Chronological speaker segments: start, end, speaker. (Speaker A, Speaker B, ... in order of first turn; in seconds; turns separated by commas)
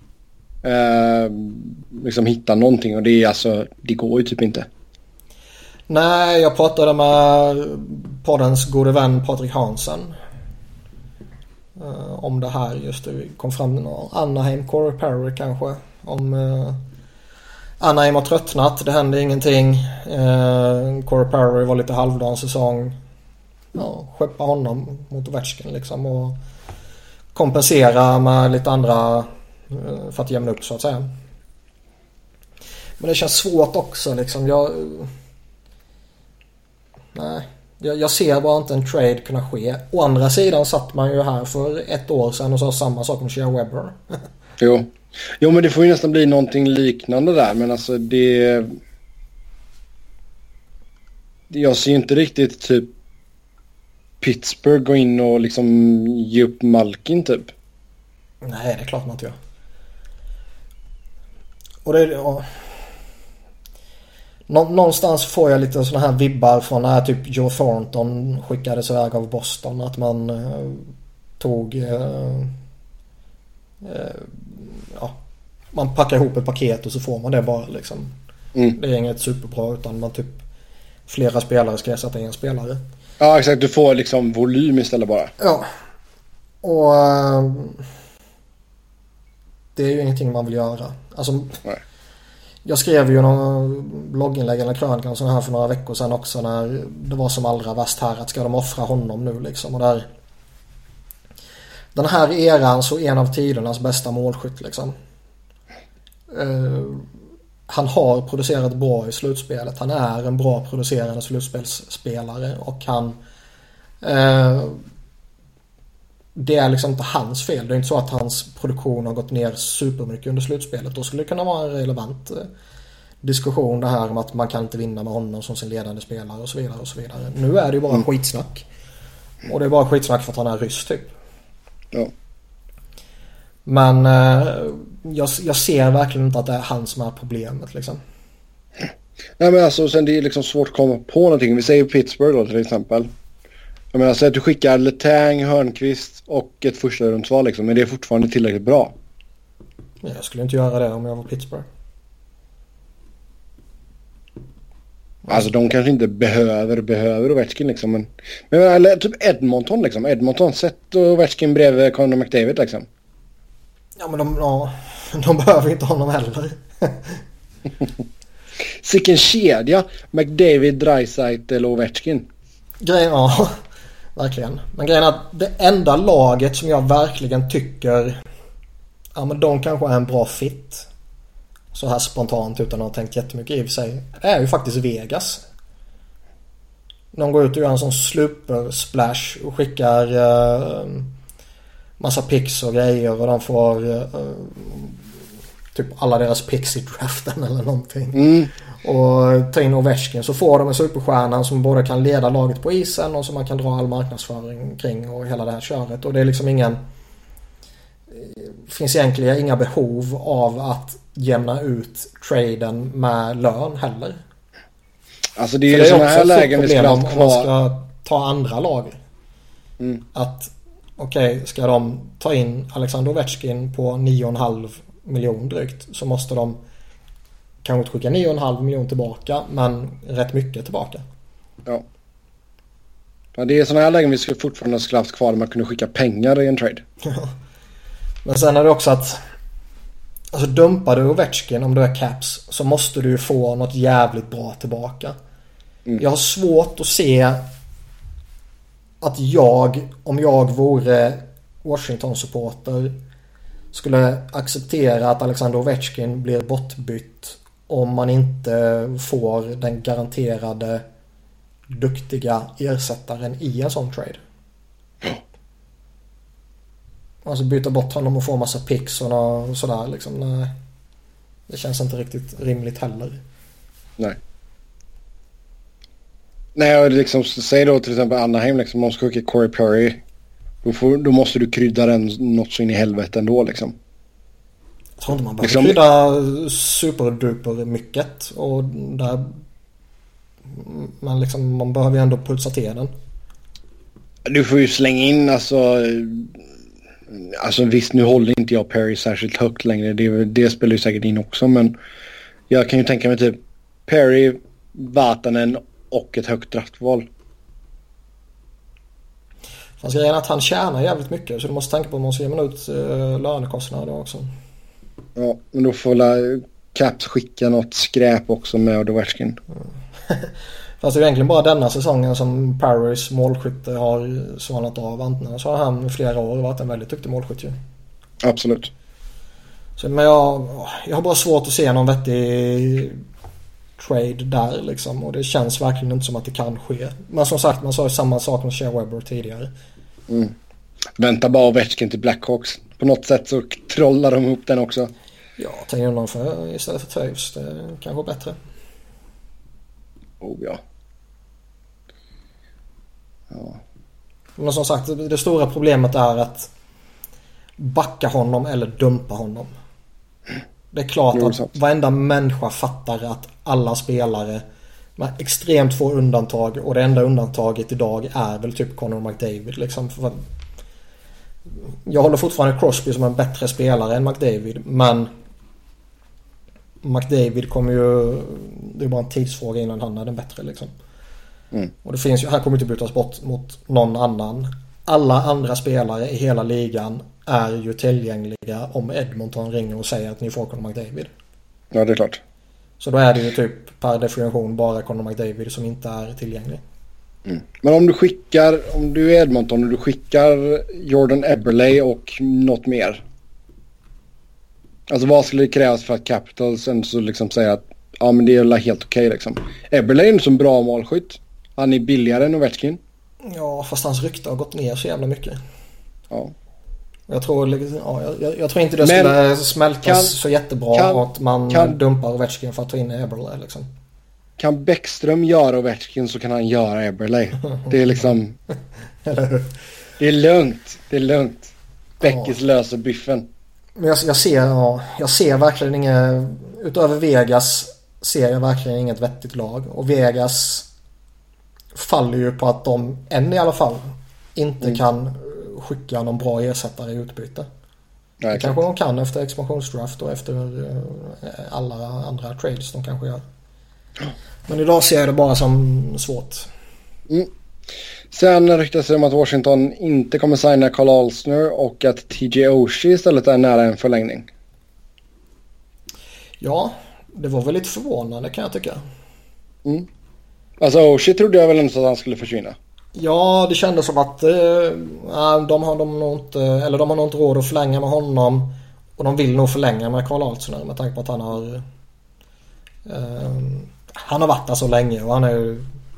Speaker A: 0.6-4.7, Speaker B: 5.9-10.1, Speaker B: 11.8-16.8, Speaker B: 17.8-22.9, Speaker B: 23.7-26.4, Speaker B: 27.3-31.1, Speaker B: 33.0-35.1, Speaker B: 37.1-44.0, Speaker A: 44.6-48.8, Speaker A: 51.5-52.9, Speaker A: 54.2-57.5, Speaker B: 58.4-59.4, Speaker B: 61.8-62.8, Speaker B: 64.5-72.5, Speaker B: 73.8-75.2, Speaker B: 75.7-78.1, Speaker B: 78.7-80.4, Speaker B: 81.1-82.8, Speaker A: 83.2-85.3, Speaker B: 85.4-85.7, Speaker B: 86.6-87.8, Speaker B: 89.8-91.6, Speaker B: 92.6-100.0, Speaker B: 101.9-104.9, Speaker B: 106.3-107.1, Speaker B: 107.7-113.2, Speaker B: 114.0-114.8, Speaker B: 116.3-122.5, Speaker B: 123.2-128.6, Speaker B: 129.4-131.1, Speaker B: 133.7-138.0, Speaker A: 139.4-143.1, Speaker A: 143.9-148.9, Speaker B: 150.0-151.7, Speaker A: 155.3-162.9, Speaker B: 164.0-167.2, Speaker A: 168.8-172.3, Speaker B: 172.8-173.5, Speaker B: 174.2-178.2, Speaker B: 179.1-180.9, Speaker B: 181.7-185.4, Speaker B: 187.1-191.1, Speaker B: 192.0-195.0, Speaker B: 195.7-206.8, Speaker A: 198.1-198.5, Speaker B: 208.1-214.2, Speaker A: 215.4-217.5, Speaker B: 215.7-218.9, Speaker B: 220.1-226.6, Speaker B: 227.6-231.0, Speaker A: 233.3-236.8, Speaker B: 237.0-237.3, Speaker B: 238.2-239.2, Speaker B: 240.3-245.2, Speaker B: 246.0-247.4, Speaker B: 249.0-252.9, Speaker B: 253.7-260.8, Speaker B: 261.7-264.2, Speaker B: 267.2-270.5, Speaker B: 271.5-273.2, Speaker A: 276.6-280.0, Speaker A: 280.6-283.8, Speaker B: 285.0-289.3, Speaker A: 285.4-285.8, Speaker B: 290.5-292.9, Speaker A: 294.2-296.3, Speaker A: 297.1-301.8, Speaker A: 302.5-307.1, Speaker B: 309.8-314.3, Speaker A: 315.1-319.4, Speaker B: 320.0-327.5, Speaker A: 328.2-328.7, Speaker B: 329.8-333.0, Speaker B: 333.8-339.5, Speaker A: 340.1-340.3, Speaker A: 341.0-344.9, Speaker B: 345.4-348.4, Speaker A: 350.2-350.6, Speaker A: 353.3-353.6, Speaker B: 354.4-356.5, Speaker B: 357.6-359.5, Speaker B: 360.7-364.4, Speaker A: 361.1-361.5, Speaker B: 365.0-370.2, Speaker B: 371.6-375.1, Speaker B: 376.8-380.7, Speaker B: 381.8-391.1, Speaker A: 391.7-392.2, Speaker B: 392.8-396.6, Speaker A: 397.2-403.0, Speaker A: 404.9-412.8, Speaker B: 413.2-415.4, Speaker B: 417.1-423.7, Speaker A: 418.8-419.1, Speaker A: 419.8-420.1, Speaker A: 420.7-421.8, Speaker A: 424.4-428.4, Speaker B: 429.0-429.5, Speaker A: 430.0-433.3, Speaker B: 432.0-432.3, Speaker B: 433.8-440.7, Speaker B: 441.7-447.4, Speaker A: 448.2-448.6, Speaker B: 448.3-453.2, Speaker B: 454.5-456.5, Speaker A: 458.1-464.3, Speaker B: 466.4-468.8, Speaker A: 470.6-472.6, Speaker B: 472.9-481.6, Speaker B: 482.9-485.7